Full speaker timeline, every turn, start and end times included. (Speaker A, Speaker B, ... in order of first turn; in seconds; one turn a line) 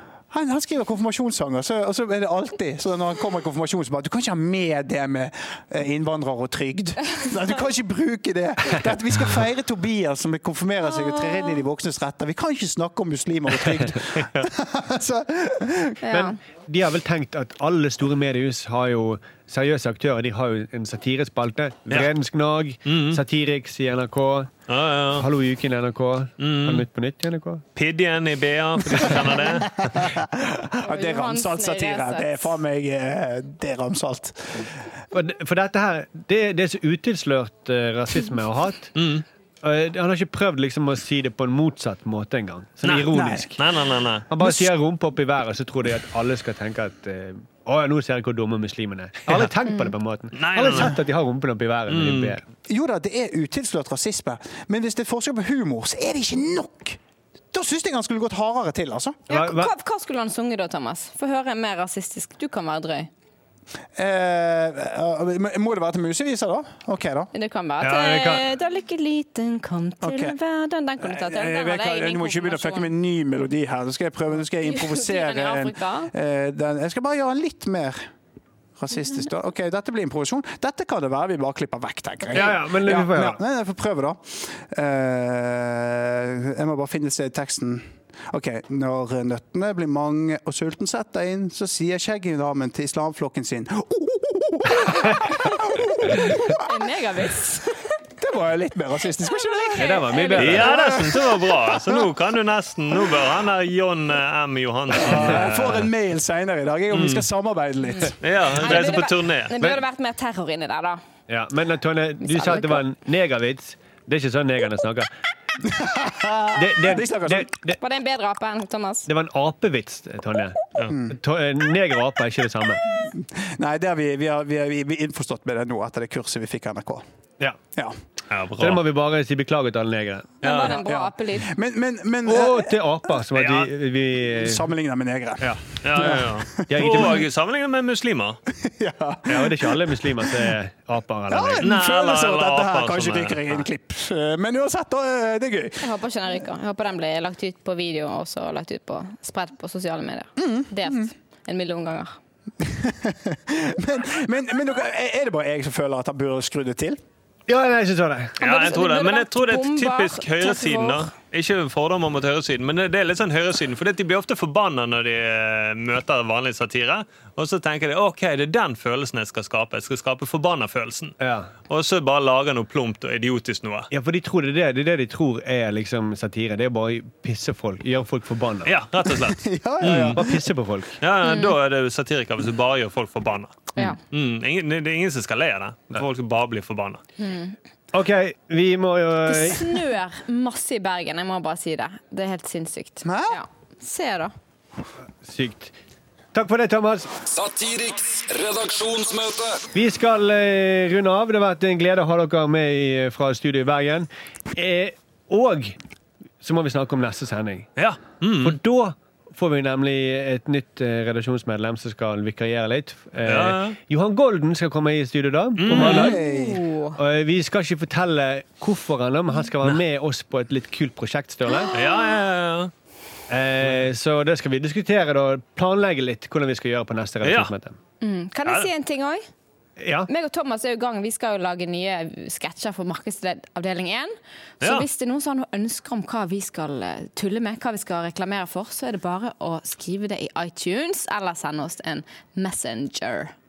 Speaker A: 0.3-16.0
Speaker B: 10.9-11.6
Speaker B: 16.0-16.4
Speaker C: 16.1-24.5
Speaker D: 22.9-23.2
Speaker D: 24.7-25.3
Speaker C: 25.2-27.6
Speaker D: 26.4-26.8
Speaker D: 27.8-29.8
Speaker A: 29.8-34.7
Speaker B: 30.8-32.5
Speaker C: 35.1-39.0
Speaker D: 39.0-39.2
Speaker C: 39.6-43.6
Speaker D: 42.8-44.3
Speaker A: 43.1-43.5
Speaker C: 44.3-52.4
Speaker A: 44.4-44.7
Speaker D: 50.3-51.0
Speaker D: 51.9-52.4
Speaker A: 52.7-57.0
Speaker A: 57.5-59.3
Speaker B: 59.3-63.1
Speaker C: 59.3-59.7
Speaker A: 64.0-67.3
Speaker B: 67.3-72.9
Speaker C: 67.8-68.5
Speaker A: 70.0-70.3
Speaker A: 71.0-78.1
Speaker B: 74.6-76.1
Speaker A: 78.8-96.8
Speaker C: 82.3-83.4
Speaker B: 95.0-98.0
Speaker A: 98.2-102.1
Speaker B: 99.2-101.1
Speaker C: 99.8-100.8
Speaker D: 100.3-105.9
Speaker A: 104.9-108.2
Speaker D: 106.9-107.2
Speaker D: 108.2-109.5
Speaker B: 108.5-111.0
Speaker C: 111.3-115.1
Speaker B: 112.2-112.8
Speaker A: 115.6-117.5
Speaker C: 116.5-117.8
Speaker B: 117.8-119.1
Speaker C: 119.1-122.8
Speaker A: 120.9-121.2
Speaker A: 122.9-127.0
Speaker D: 128.3-128.8
Speaker C: 128.6-130.3
Speaker D: 130.4-130.8
Speaker B: 130.4-131.5
Speaker A: 130.6-132.8
Speaker C: 132.2-134.6
Speaker D: 133.3-133.7
Speaker A: 134.2-137.0
Speaker D: 135.8-138.4
Speaker C: 136.7-137.2
Speaker A: 138.6-140.3
Speaker C: 139.3-141.7
Speaker A: 141.3-145.8
Speaker D: 141.6-143.6
Speaker B: 145.8-152.1
Speaker A: 150.4-151.1
Speaker A: 152.6-157.0
Speaker C: 157.5-158.4
Speaker B: 158.4-161.1
Speaker D: 158.4-173.9
Speaker C: 171.2-171.5
Speaker C: 173.9-178.7
Speaker D: 178.7-180.3
Speaker A: 179.2-180.4
Speaker C: 179.9-181.0
Speaker D: 181.0-187.0
Speaker B: 181.2-181.5
Speaker B: 187.2-187.5
Speaker C: 187.9-189.8
Speaker B: 189.2-194.3
Speaker A: 193.0-193.4
Speaker C: 195.2-195.7
Speaker C: 196.3-197.1
Speaker E: 197.3-199.7
Speaker C: 199.7-205.8
Speaker C: 206.4-207.7
Speaker D: 207.8-208.6
Speaker C: 208.4-216.2
Speaker D: 213.2-213.8
Speaker D: 215.6-216.2
Speaker A: 215.7-216.6
Speaker B: 215.8-217.0
Speaker C: 216.9-221.7
Speaker B: 221.5-221.9
Speaker D: 221.7-222.7
Speaker C: 223.3-227.8
Speaker D: 227.2-227.5
Speaker B: 228.0-229.2
Speaker C: 229.8-230.1
Speaker B: 230.1-243.3